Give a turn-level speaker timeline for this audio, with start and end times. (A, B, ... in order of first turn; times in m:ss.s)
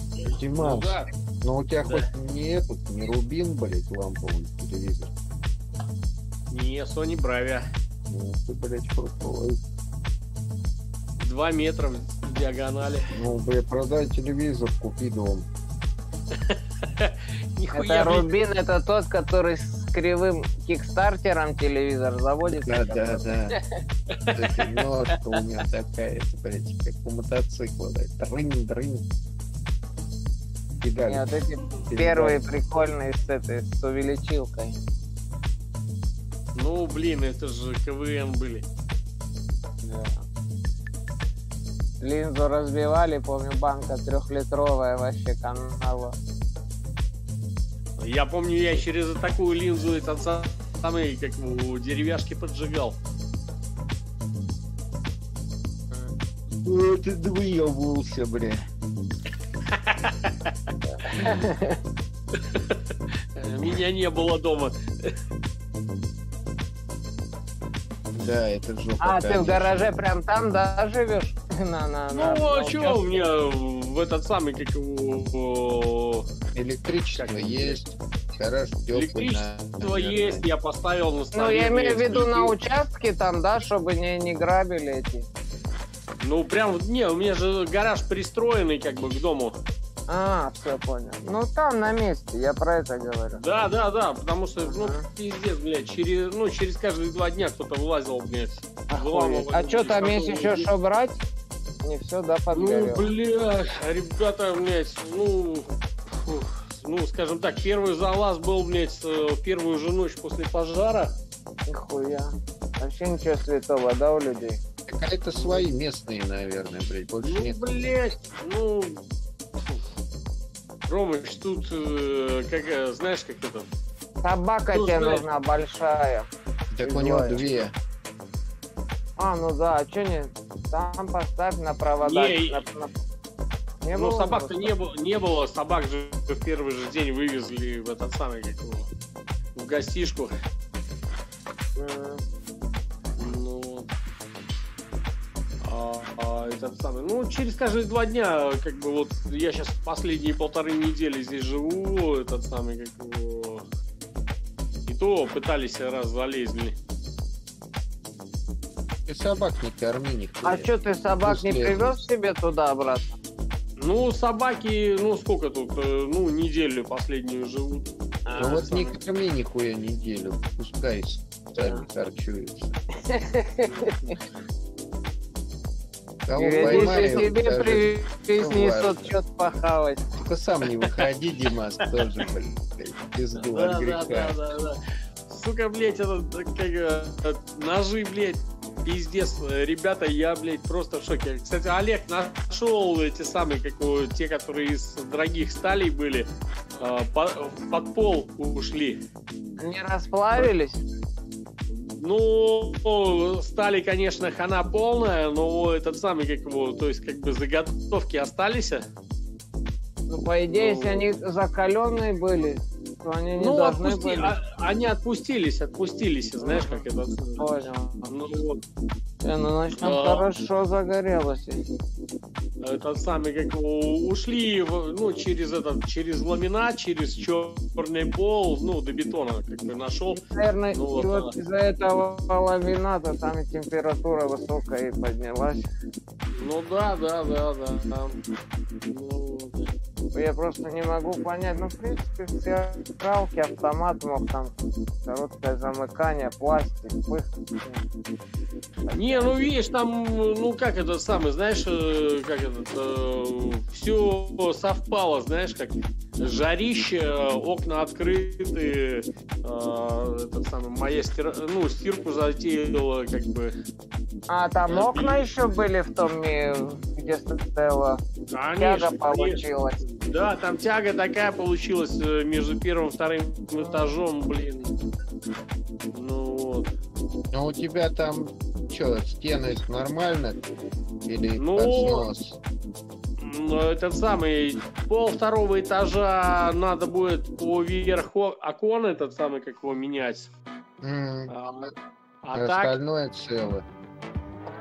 0:00.2-0:01.1 A
0:00.4-0:05.1 B
0:06.5-0:07.6 A
0:08.1-0:09.6 B
0:11.2-0:13.1 A
0:13.1-0:15.5 B
0:16.3-0:18.3 A
0:17.7-0:23.6 C
0:22.6-0:23.6 B
0:24.1-0:24.6 A
0:24.3-0:29.0 B
0:30.8-0:31.3 B
0:31.1-0:34.8 C
0:31.9-0:32.4 B
0:36.6-0:38.6 A
0:42.0-0:46.2 C
0:48.0-0:53.0 A
0:56.6-0:58.7 B
0:59.7-1:00.7 A
1:01.0-1:01.8 C
1:02.3-1:02.8 A
1:03.4-1:05.2 A
1:08.1-1:09.9 B
1:09.0-1:13.3 C
1:12.1-1:16.3 A
1:16.5-1:20.4 B
1:17.1-1:17.8 A
1:18.9-1:22.6 A
1:21.3-1:25.3 C
1:26.2-1:29.6 A
1:30.1-1:33.4 C
1:33.4-1:40.7 A
1:34.6-1:35.1 C
1:38.9-1:41.2 C
1:41.8-1:43.1 C
1:42.5-1:51.2 A
1:51.7-1:54.6 C
1:54.9-1:57.6 B
1:57.2-1:59.0 A
2:00.9-2:03.7 A
2:04.2-2:06.3 C
2:04.7-2:05.2 A
2:06.7-2:07.8 B
2:06.8-2:07.4 C
2:09.2-2:13.0 C
2:12.0-2:12.6 A
2:13.8-2:14.7 C
2:13.9-2:18.9 A
2:19.6-2:20.3 A
2:21.8-2:22.2 C
2:23.2-2:23.9 A
2:25.6-2:33.6 A
2:34.9-2:36.8 A
2:39.1-2:40.7 B
2:40.4-2:43.2 C
2:41.2-2:42.0 B
2:43.8-2:49.0 A
2:48.3-2:48.7 C
2:48.4-2:52.8 B
2:51.6-2:51.9 C
2:53.0-2:54.2 C
2:56.3-2:59.2 B
2:56.4-3:00.0 C
2:56.6-2:57.3 A
3:00.2-3:04.4 B
3:03.5-3:19.0 A
3:19.6-3:20.8 C
3:21.7-3:28.8 A
3:30.1-3:34.4 C
3:30.5-3:31.1 A
3:33.4-3:37.5 A
3:36.4-3:36.8 C
3:37.4-3:38.1 C
3:38.1-3:38.6 A
3:39.2-3:41.6 C
3:39.8-3:40.3 A
3:42.6-3:51.3 A
3:50.2-3:55.7 C
3:56.4-3:58.2 A
3:58.9-3:59.7 A
4:00.1-4:07.8 C
4:08.9-4:09.5 C
4:08.9-4:23.5 A
4:24.3-4:28.0 C
4:24.7-4:25.2 A
4:28.3-4:34.7 A
4:28.6-4:29.8 C
4:33.6-4:33.9 C
4:35.9-4:36.7 A
4:37.3-4:40.4 B
4:41.0-4:42.4 B
4:41.4-4:42.1 A
4:43.2-4:50.3 A
4:50.8-4:51.3 B
4:51.3-4:52.7 A
4:52.3-4:53.7 B